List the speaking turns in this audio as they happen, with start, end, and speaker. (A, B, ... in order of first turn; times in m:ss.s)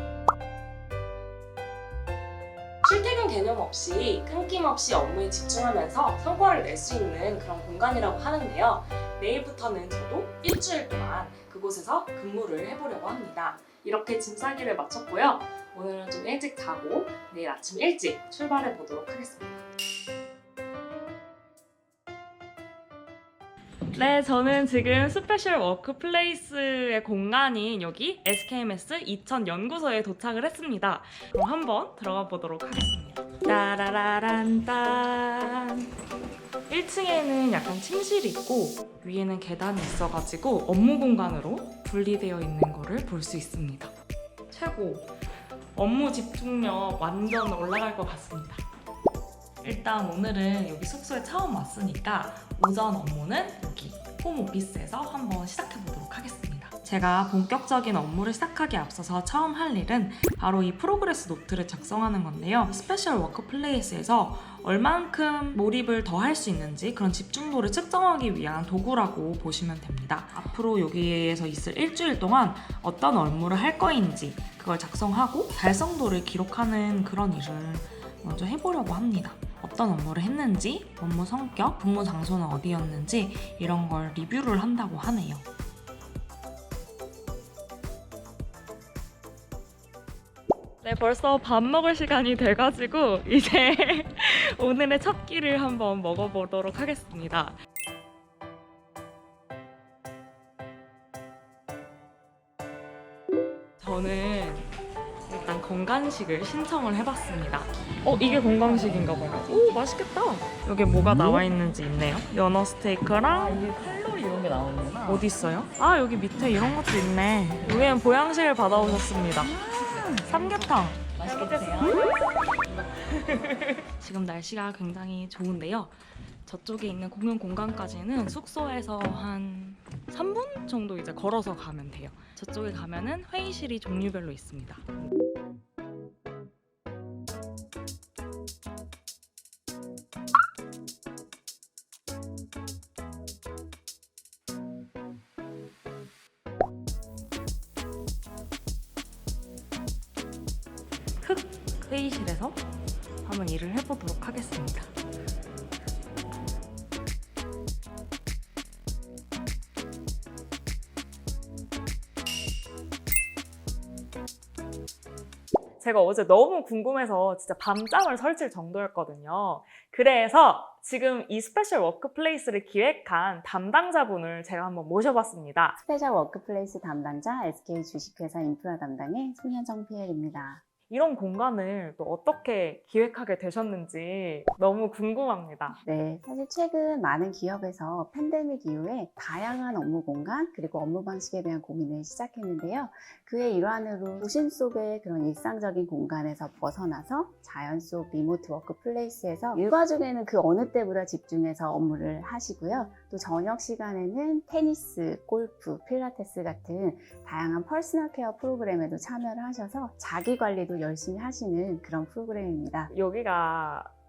0:02.8-0:19.6 A
0:23.9-0:35.9 A
0:36.7-0:43.9 A
0:44.5-0:45.1 A
0:45.7-0:48.6 A
0:49.6-1:25.5 A
1:30.8-1:37.6 A
1:43.8-1:44.7 A
1:45.3-1:53.6 A
1:48.1-1:49.8 B
1:53.2-1:55.3 B
1:55.0-1:59.6 A
1:58.7-2:00.3 B
2:00.2-2:02.4 A
2:01.2-2:02.1 B
2:03.0-2:14.8 A
2:31.2-2:32.6 A
2:33.2-2:34.9 A
2:45.8-2:55.8 A
2:55.8-3:00.6 C
3:00.9-3:05.8 A
3:05.8-3:32.9 C
3:32.9-3:33.9 A